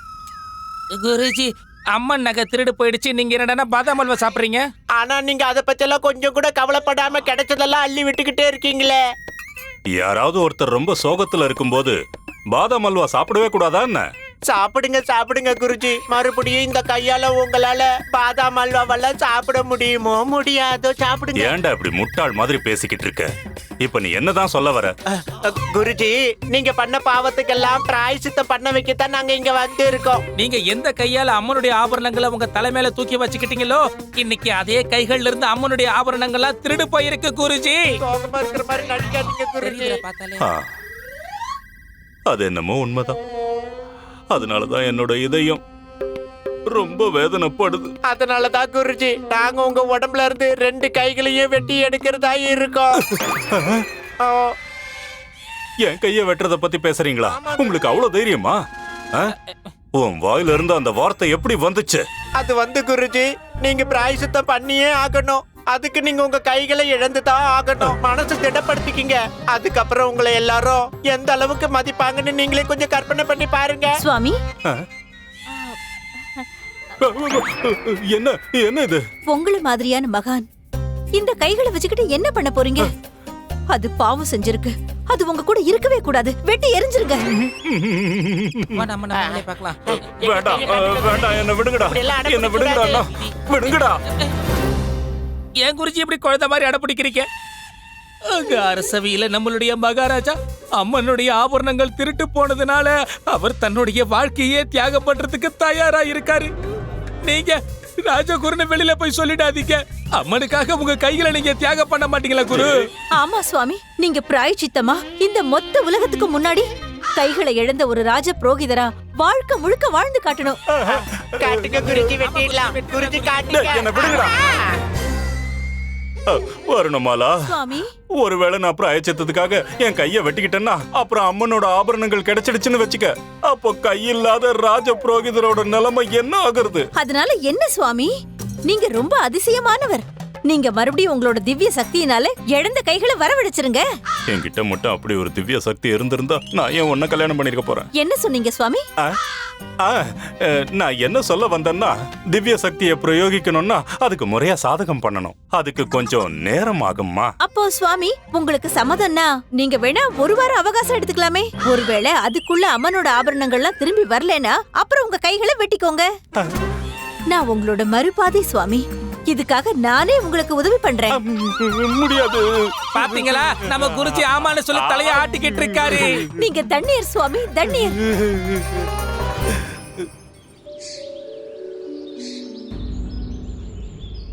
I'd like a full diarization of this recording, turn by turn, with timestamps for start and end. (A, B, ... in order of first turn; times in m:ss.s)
0:01.0-0:04.7 A
0:05.0-0:09.0 B
0:10.0-0:12.0 C
0:12.5-0:14.1 C
0:14.5-0:21.5 B
0:21.4-0:23.3 C
0:23.8-0:24.9 C
0:25.4-0:30.2 B
0:30.4-0:37.8 A
0:38.0-0:40.0 B
0:39.6-0:40.4 A
0:42.3-0:43.2 C
0:44.3-0:45.6 C
0:46.7-0:47.9 C
0:48.1-0:52.9 B
0:54.2-0:54.5 B
0:55.8-0:58.6 C
0:57.3-0:57.9 B
1:00.0-1:02.0 C
1:02.4-1:14.0 B
1:14.0-1:14.4 D
1:17.0-1:19.0 C
1:19.3-1:20.5 D
1:21.2-1:22.9 D
1:23.7-1:27.2 D
1:27.7-1:28.9 C
1:28.8-1:29.8 A
1:29.2-1:29.4 B
1:30.0-1:31.3 B
1:30.2-1:34.0 C
1:31.8-1:33.0 B
1:35.6-1:37.3 A
1:38.3-1:46.5 A
1:47.2-1:52.7 A
1:53.1-2:00.6 D
2:00.9-2:04.7 B
2:01.5-2:02.0 C
2:02.4-2:03.6 A
2:03.5-2:04.4 C
2:06.3-2:07.6 C
2:07.5-2:07.9 D
2:08.2-2:16.9 C
2:17.0-2:18.1 D
2:18.7-2:23.8 D
2:24.3-2:27.9 C
2:27.9-2:28.8 D
2:30.8-2:37.3 C
2:37.4-2:46.1 D
2:47.3-2:51.2 D
2:51.2-2:53.1 C
2:53.0-2:56.2 A
2:53.9-2:55.2 C
2:56.4-2:58.0 D